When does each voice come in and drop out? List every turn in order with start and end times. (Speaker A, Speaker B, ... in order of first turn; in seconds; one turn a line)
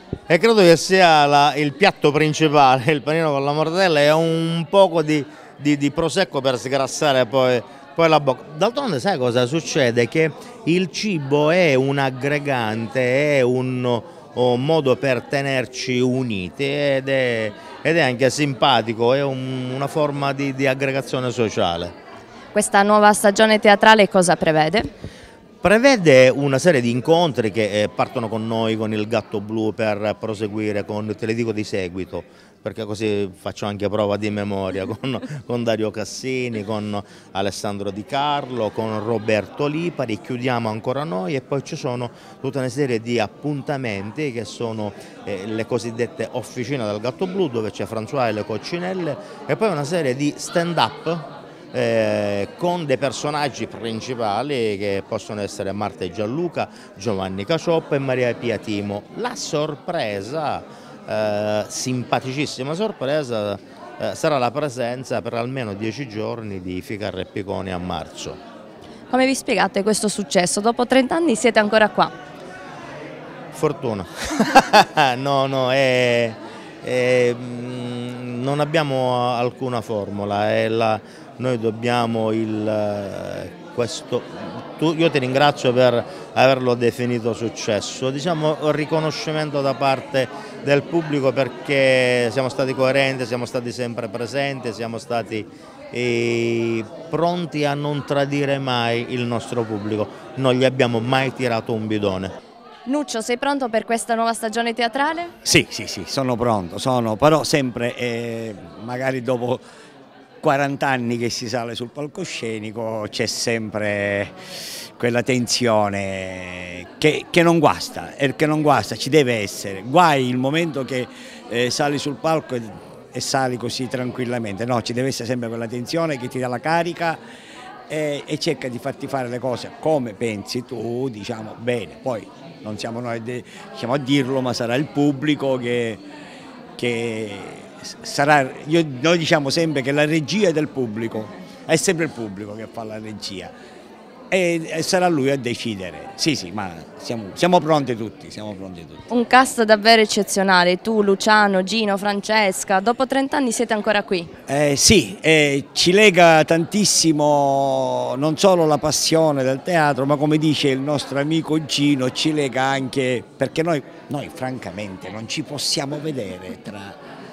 Speaker A: 0.3-21.9
Speaker B: 22.5-24.9
Speaker A: 25.6-68.4
Speaker B: 69.1-72.1
Speaker A: 73.5-102.3
Speaker B: 102.9-105.3
Speaker C: 105.5-109.7
Speaker C: 110.4-127.2
Speaker C: 127.9-136.0
Speaker C: 136.8-143.5
Speaker C: 144.3-149.1
Speaker B: 149.1-154.3
Speaker C: 154.5-167.0